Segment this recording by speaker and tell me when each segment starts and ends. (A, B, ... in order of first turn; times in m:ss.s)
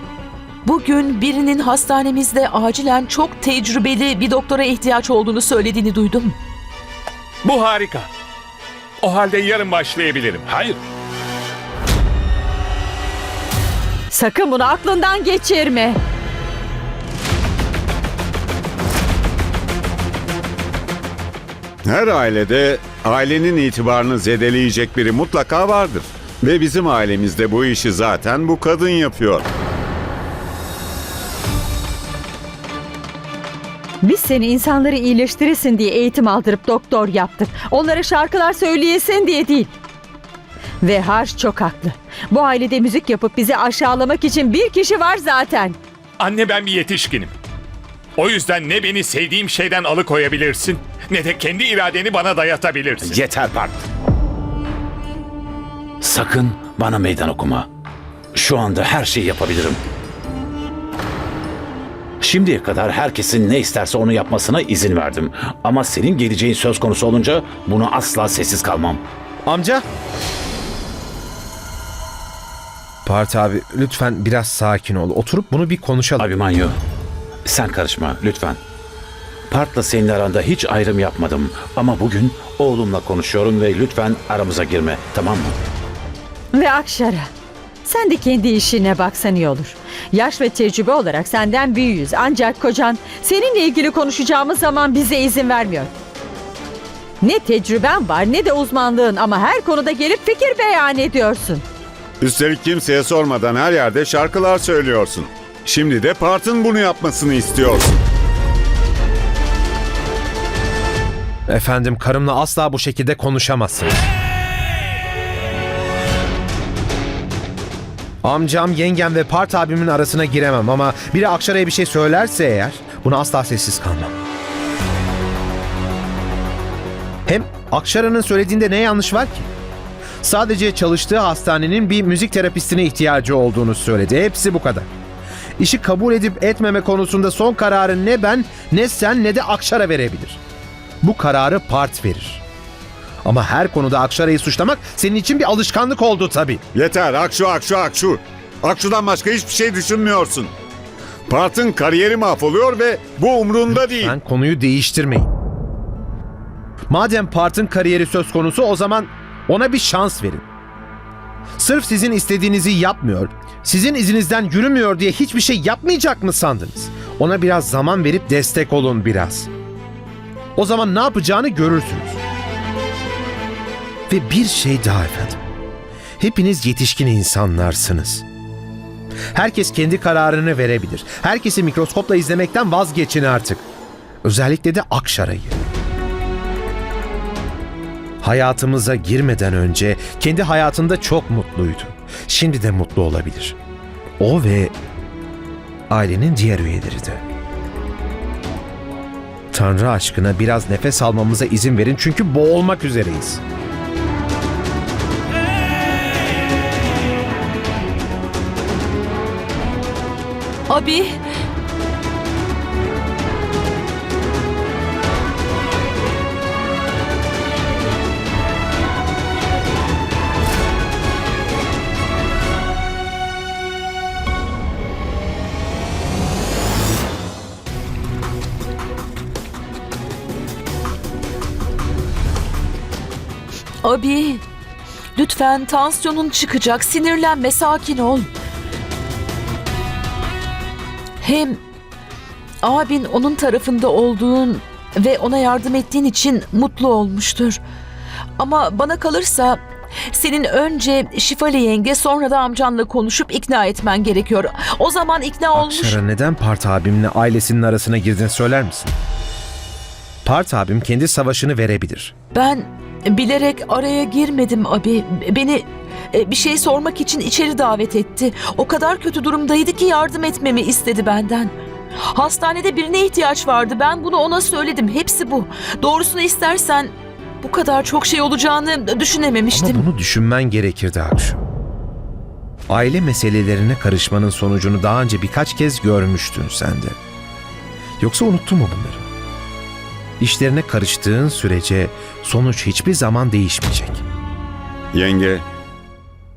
0:00.6-0:06.4 A
0:07.4-0:08.1 B
0:09.0-0:10.8 B
0:14.1-0:16.0 C
0:21.8-0:29.5 D
0:34.0-0:39.7 C
0:40.8-0:45.8 C
0:46.2-0:47.3 B
0:48.2-0:53.2 B
0:53.1-0:53.8 E
0:56.0-0:57.7 E
0:58.3-0:59.8 E
1:02.2-1:09.0 E
1:09.5-1:09.8 F
1:13.0-1:16.3 F
1:16.2-1:16.7 E
1:17.4-1:18.6 E
1:19.5-1:25.5 E
1:26.5-1:27.3 C
1:27.8-1:35.9 C
1:37.2-1:41.6 C
1:42.2-1:48.0 D
1:51.5-1:53.9 F
1:58.2-2:04.1 F
2:07.2-2:09.5 F
2:10.2-2:14.9 F
2:15.6-2:20.4 F
2:21.0-2:22.4 F
2:23.2-2:26.6 F
2:26.7-2:30.5 D
2:31.3-2:34.2 D
2:33.7-2:35.3 F
2:36.9-2:40.4 F
2:41.6-2:49.5 F
2:50.6-2:52.2 F
2:54.1-2:55.4 F
2:56.2-2:58.2 F
2:59.3-3:03.6 F
3:04.2-3:05.6 F
3:08.2-3:13.6 F
3:14.2-3:14.7 F
3:15.9-3:17.2 F
3:19.5-3:23.4 F
3:30.7-3:31.2 A
3:53.8-3:54.4 A
3:55.2-3:58.3 A
4:01.2-4:01.6 A
4:02.6-4:07.6 A
4:08.4-4:16.0 A
4:15.5-4:18.9 F
4:20.2-4:22.1 F
4:22.3-4:31.5 A
4:32.1-4:39.8 A
4:39.5-4:41.4 F
4:42.7-4:47.0 F
4:48.0-4:49.0 F
4:50.2-4:54.0 F
4:54.9-4:55.4 D